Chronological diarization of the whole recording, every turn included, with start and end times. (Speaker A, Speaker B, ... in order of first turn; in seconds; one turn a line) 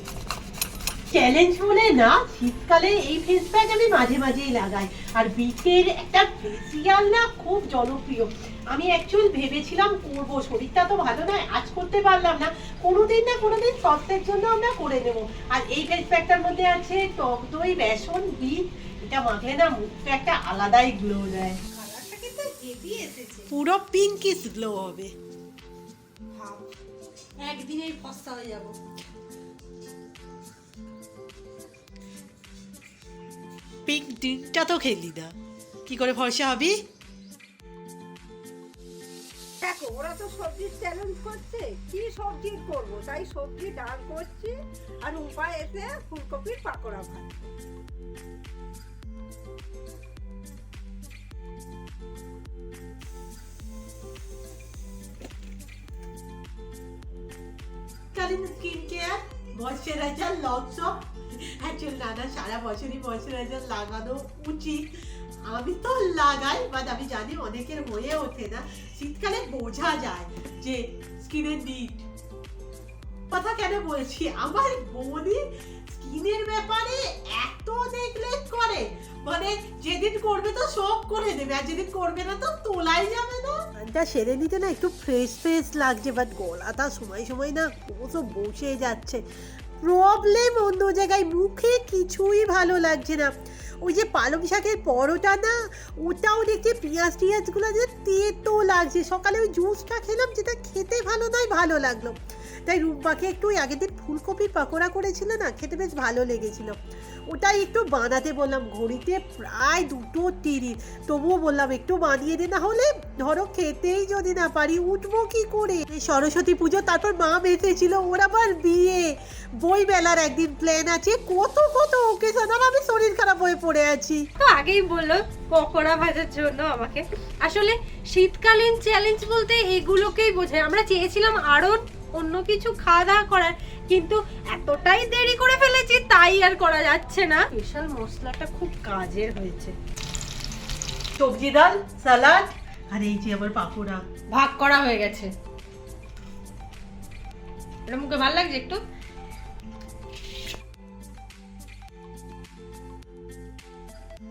Speaker A: 1.1-21.6
Speaker B: 21.7-23.5
Speaker A: 23.5-25.1
Speaker B: 26.4-26.7
Speaker B: 27.4-28.8
Speaker A: 33.9-35.4
Speaker A: 35.9-36.8
Speaker C: 39.6-47.5
Speaker A: 58.1-64.9
Speaker A: 65.5-72.0
Speaker A: 73.3-89.2
Speaker A: 89.8-106.8
Speaker A: 107.3-124.2
Speaker B: 124.4-139.8
Speaker A: 141.2-144.0
Speaker B: 144.3-145.3
Speaker B: 147.9-148.8